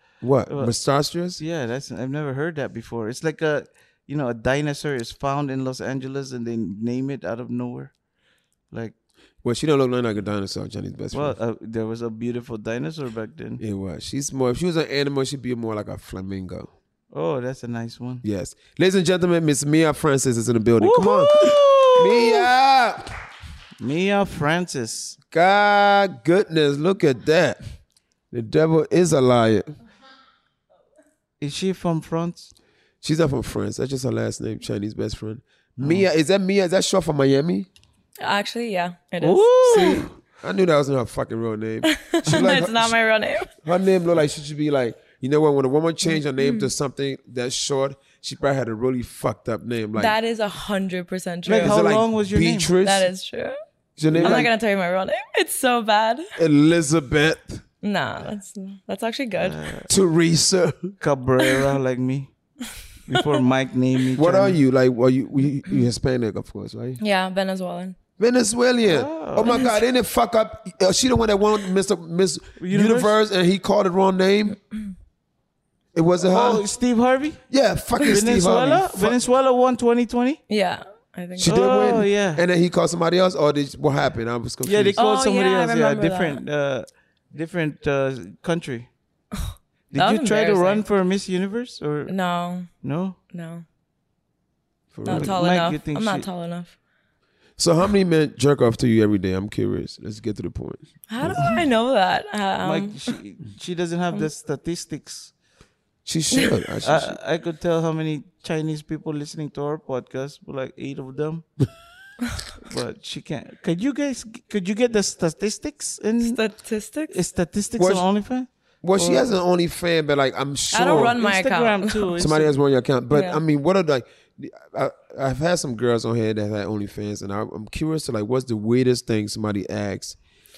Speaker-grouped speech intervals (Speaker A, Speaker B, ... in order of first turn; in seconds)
Speaker A: 0.2-1.4, 9.4-11.4, 13.6-16.7, 18.2-23.1, 25.3-27.6, 28.3-29.7, 33.0-37.7, 39.6-43.0, 43.6-50.2, 51.5-53.1, 54.0-54.5, 56.4-57.6, 59.9-61.0, 64.1-67.0, 68.2-74.6, 75.9-76.6, 77.5-79.2, 81.4-85.0, 94.9-95.4, 97.6-101.5, 106.0-107.2, 117.8-118.1, 118.8-121.2, 122.2-130.2
Speaker B: 0.5-0.7, 1.4-7.9, 11.1-13.6, 17.1-18.2, 20.8-22.5, 23.8-25.2, 31.4-32.5, 35.8-36.1, 39.2-40.1, 51.5-52.7, 54.1-54.5, 59.4-59.9, 61.0-62.3, 63.1-64.6, 68.8-69.7, 72.6-73.2, 76.2-77.4, 78.0-80.4, 81.4-82.4, 84.7-88.9, 89.9-92.1, 92.8-93.2, 95.1-96.3, 102.6-105.3, 106.8-111.5, 112.6-116.4, 117.1-119.3, 121.1-122.5
Speaker C: 38.2-39.8, 41.8-43.5, 46.1-46.7, 50.0-51.9, 52.8-53.6, 54.1-56.3, 57.8-59.7, 67.0-68.0, 69.5-69.8, 80.5-82.0, 85.0-86.4, 89.9-90.8, 92.1-92.7, 93.3-93.7, 95.0-96.8, 101.1-103.2, 116.2-117.2, 120.7-122.2, 123.1-123.4